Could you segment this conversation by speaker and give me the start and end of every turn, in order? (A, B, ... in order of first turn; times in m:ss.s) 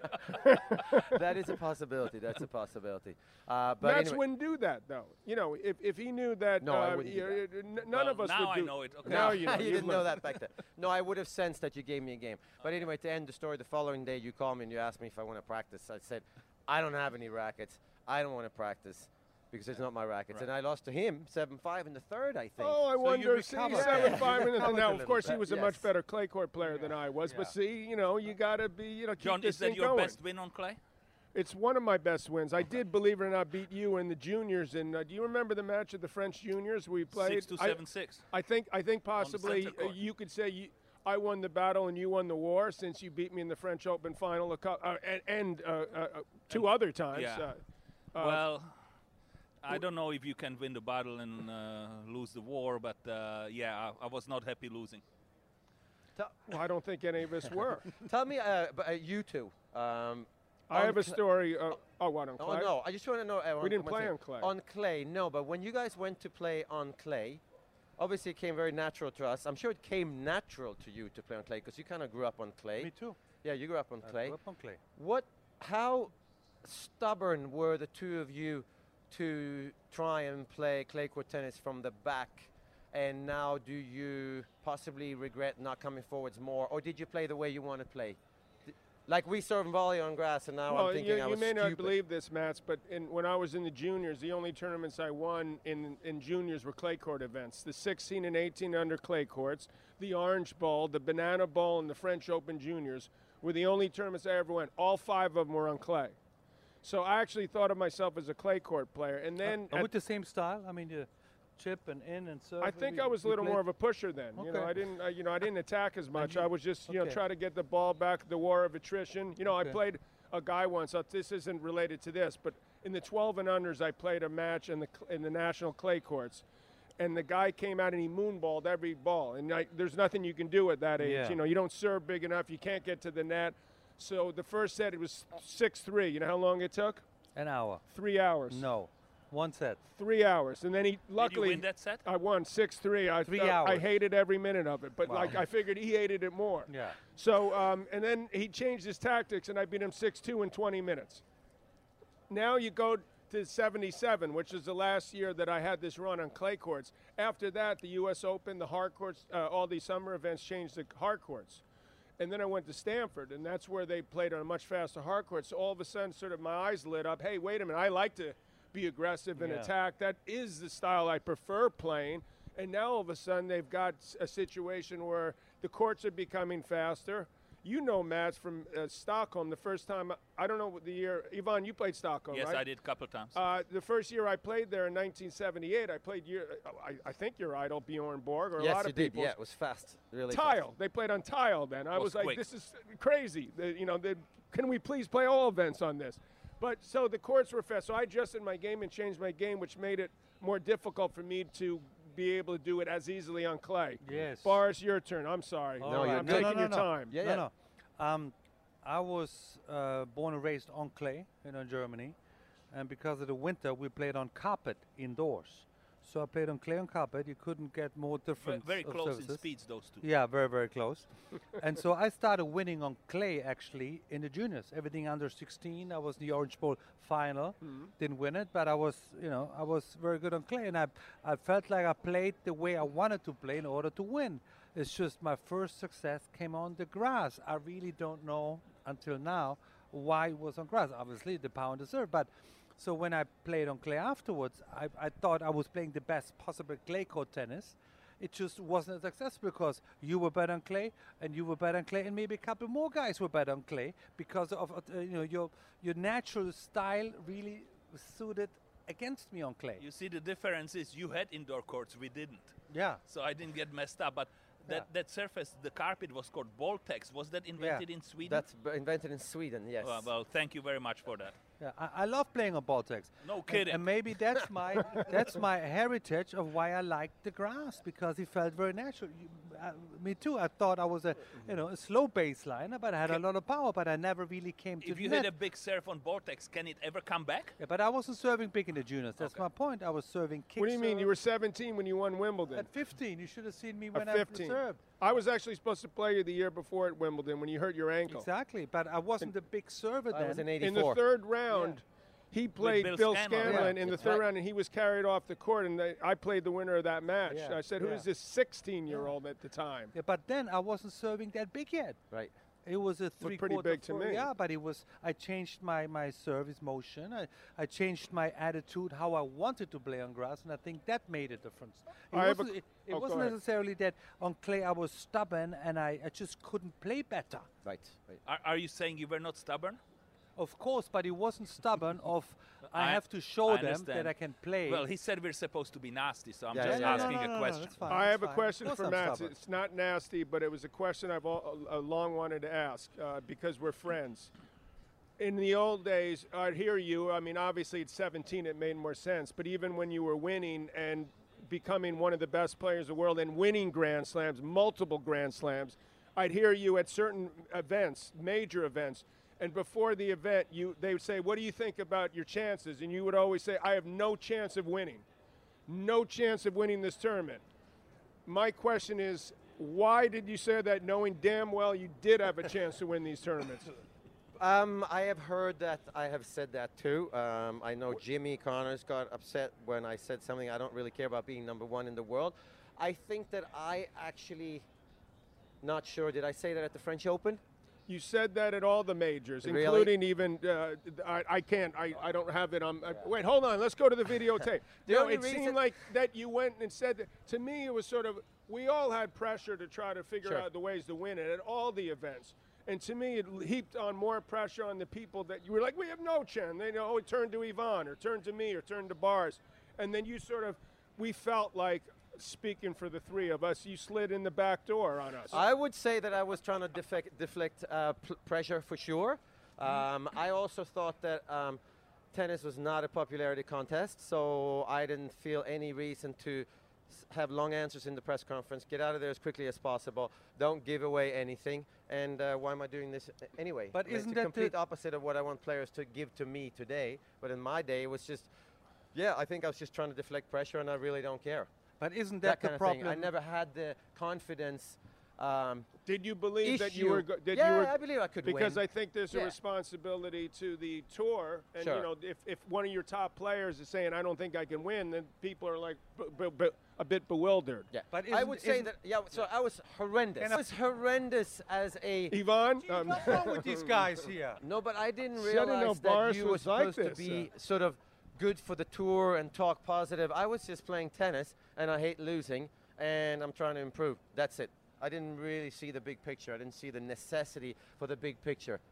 0:00.4-0:01.1 A
0:01.0-0:04.2 B
0:03.8-0:10.1 A
0:06.6-0:07.4 B
0:07.9-0:10.1 C
0:09.0-0:22.8 B
0:22.6-0:30.2 A
0:23.0-0:25.3 D
0:23.7-0:25.9 B
0:26.6-0:27.5 D
0:29.2-0:30.8 C
0:31.3-0:37.8 A
0:37.2-0:38.3 C
0:38.3-0:47.6 A
0:39.2-0:40.0 C
0:46.5-0:47.5 C
0:48.1-0:48.4 A
0:48.2-0:48.7 C
0:49.6-0:55.0 C
0:56.2-0:56.5 B
0:56.5-0:57.9 A
0:58.0-1:01.2 B
1:00.7-1:02.7 A
1:02.4-1:07.4 B
1:03.6-1:04.5 A
1:08.0-1:14.4 B
1:12.8-1:13.2 D
1:14.0-1:14.8 D
1:15.0-1:16.1 B
1:16.6-1:32.0 B
1:30.7-1:46.2 A
1:46.8-1:49.9 A
1:49.4-1:53.6 D
1:52.6-2:06.4 A
1:54.4-1:54.7 D
1:56.2-1:57.2 D
1:59.5-1:59.8 D
2:07.0-2:17.0 A
2:11.0-2:11.4 D
2:17.4-2:17.8 D
2:17.9-2:18.6 A
2:18.5-2:19.8 D
2:20.0-2:31.2 A
2:21.2-2:22.0 C
2:23.3-2:23.9 D
2:25.0-2:25.4 D
2:26.7-2:27.0 D
2:32.3-2:41.6 A
2:42.2-3:02.6 A
2:49.4-2:49.7 D
3:02.3-3:03.4 C
3:03.3-3:09.4 A
3:08.6-3:10.6 B
3:10.3-3:27.2 A
3:12.0-3:12.4 C
3:24.0-3:24.6 D
3:25.8-3:32.2 D
3:25.8-3:27.5 B
3:32.7-3:39.4 D
3:38.4-3:40.0 C
3:40.0-4:19.8 D
3:47.6-3:47.9 A
4:19.8-4:28.4 C
4:22.7-4:23.0 D
4:27.6-4:27.8 D
4:28.2-4:30.1 B
4:29.8-4:31.4 C
4:31.6-4:45.3 D
4:33.2-4:33.8 C
4:44.8-4:47.6 C
4:47.6-4:51.1 D
4:49.2-4:49.4 C
4:50.6-4:52.7 A
4:52.5-4:54.8 D
4:53.9-4:58.3 A
4:58.1-5:00.5 D
5:00.1-5:01.0 B
5:00.6-5:09.9 A
5:01.5-5:01.8 D
5:02.6-5:03.8 C
5:03.4-5:04.2 D
5:03.8-5:04.3 B
5:07.3-5:08.1 D
5:09.9-5:12.0 D
5:12.7-5:27.5 D
5:13.2-5:14.3 A
5:22.1-5:23.4 A
5:27.6-5:28.2 B
5:28.2-5:29.8 C
5:30.4-5:34.8 D
5:32.8-5:34.1 C
5:34.7-5:37.8 C
5:36.5-5:37.1 B
5:36.6-5:39.4 D
5:37.9-5:44.3 A
5:45.2-6:05.0 A
6:05.7-6:07.4 A
6:08.3-6:13.7 A
6:14.4-6:24.7 B
6:25.6-6:27.4 B
6:27.9-6:55.4 A
6:29.4-6:29.9 B
6:34.8-6:35.6 B
6:55.3-7:01.6 B
7:02.1-7:18.3 B
7:13.7-7:14.5 D
7:18.9-7:21.5 B
7:21.8-7:23.1 D
7:22.2-7:25.8 B
7:25.9-7:37.7 A
7:26.4-7:29.4 B
7:31.6-7:31.9 B
7:37.7-7:42.2 B
7:37.9-7:38.7 D
7:42.1-7:43.7 A
7:42.7-7:44.4 D
7:44.4-7:58.6 B
7:45.2-7:47.3 A